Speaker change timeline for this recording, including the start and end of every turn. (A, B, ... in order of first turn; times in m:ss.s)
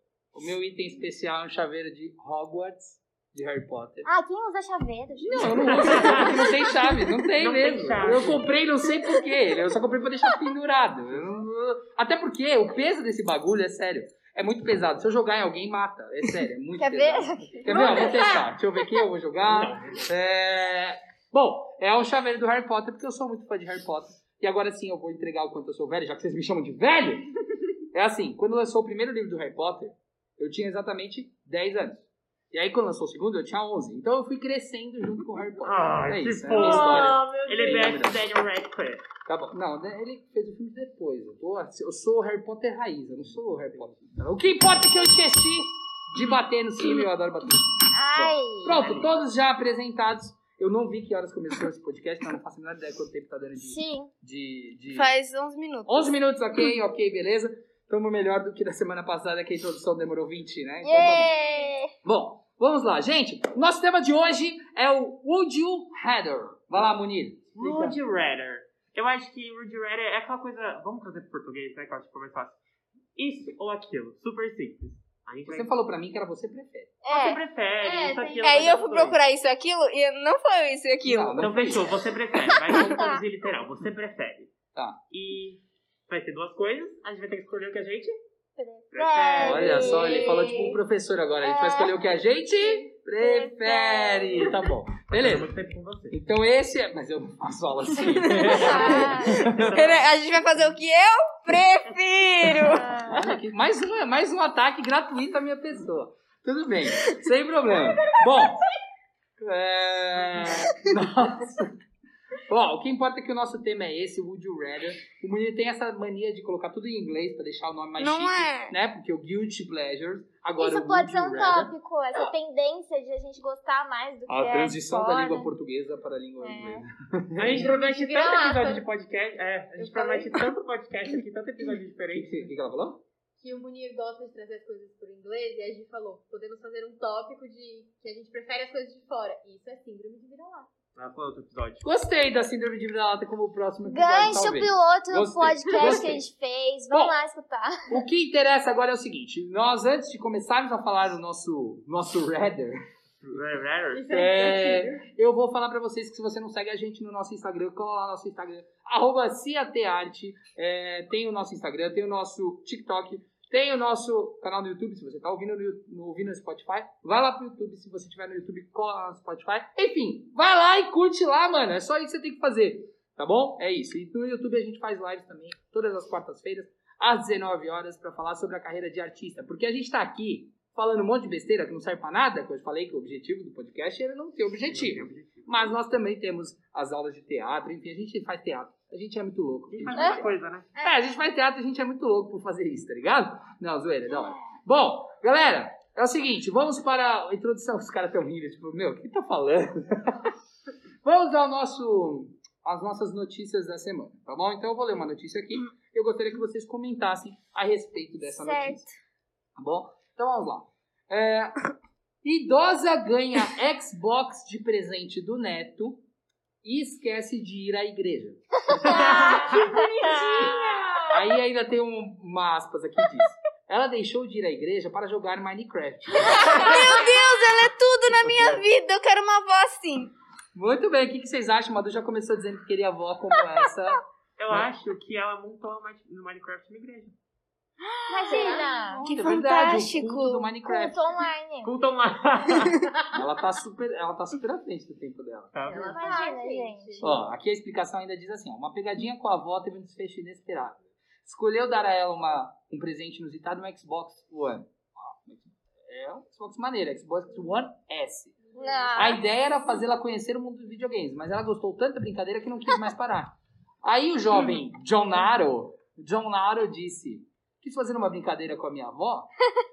0:00.3-0:04.1 A
0:04.0-0:06.9 B
0:05.2-0:27.3 A
0:05.5-0:06.3 C
0:07.4-0:08.4 C
0:16.8-0:18.5 B
0:19.5-0:20.0 C
0:27.9-0:38.2 A
0:35.6-0:39.0 C
0:36.6-0:37.9 D
0:39.3-0:55.1 A
0:43.7-0:44.0 C
0:47.9-0:48.9 B
0:48.7-0:49.1 C
0:53.6-0:54.1 B
0:54.9-0:56.1 E
0:55.9-1:01.3 A
1:00.8-1:01.9 B
1:02.0-1:08.0 A
1:07.6-1:12.6 C
1:13.2-1:15.7 C
1:15.5-1:16.9 A
1:17.0-1:17.4 B
1:17.1-1:19.2 C
1:17.8-1:18.8 D
1:18.4-1:21.6 E
1:21.0-1:21.8 A
1:21.4-1:24.5 C
1:22.5-1:22.8 E
1:22.8-1:23.2 B
1:24.7-1:25.0 A
1:25.1-1:28.2 C
1:28.6-1:30.8 B
1:28.9-1:30.1 C
1:29.4-1:35.5 A
1:30.2-1:30.6 D
1:31.4-1:32.0 B
1:33.2-1:34.6 B
1:35.1-1:36.2 C
1:36.1-1:39.8 A
1:38.1-1:43.0 E
1:38.4-1:39.4 D
1:38.5-1:40.1 C
1:43.1-1:48.7 A
1:49.4-1:51.7 A
1:52.5-2:02.2 A
1:58.0-1:58.8 E
2:00.6-2:05.5 B
2:04.3-2:07.7 A
2:06.4-2:06.8 B
2:07.4-2:12.5 C
2:07.5-2:08.8 D
2:09.8-2:10.4 D
2:12.1-2:13.0 A
2:13.4-2:20.7 D
2:21.0-2:21.8 C
2:21.8-2:26.3 A
2:23.9-2:27.9 B
2:26.9-2:27.2 A
2:27.9-2:32.8 A
2:33.2-2:34.1 C
2:33.9-2:35.0 D
2:34.1-3:20.3 A
3:04.7-3:05.7 C
3:09.7-3:10.7 C
3:10.8-3:11.0 D
3:21.0-3:28.9 A
3:28.3-3:28.9 B
3:29.6-3:31.6 A
3:32.2-3:36.0 A
3:36.6-3:40.6 A
3:38.8-3:39.9 B
3:38.9-3:41.1 D
3:39.0-3:39.5 C
3:41.1-3:47.0 A
3:46.3-3:50.1 E
3:50.5-3:54.7 A
3:54.4-3:57.2 C
3:57.8-4:00.5 E
3:58.1-3:59.0 B
3:58.3-3:58.7 D
3:59.0-4:01.0 A
4:00.6-4:01.7 B
4:01.6-4:02.9 C
4:03.1-4:05.5 A
4:05.5-4:06.0 C
4:05.7-4:07.1 D
4:05.9-4:07.2 B
4:07.0-4:18.4 A
4:18.5-4:19.1 D
4:18.6-4:19.2 B
4:19.0-4:29.3 A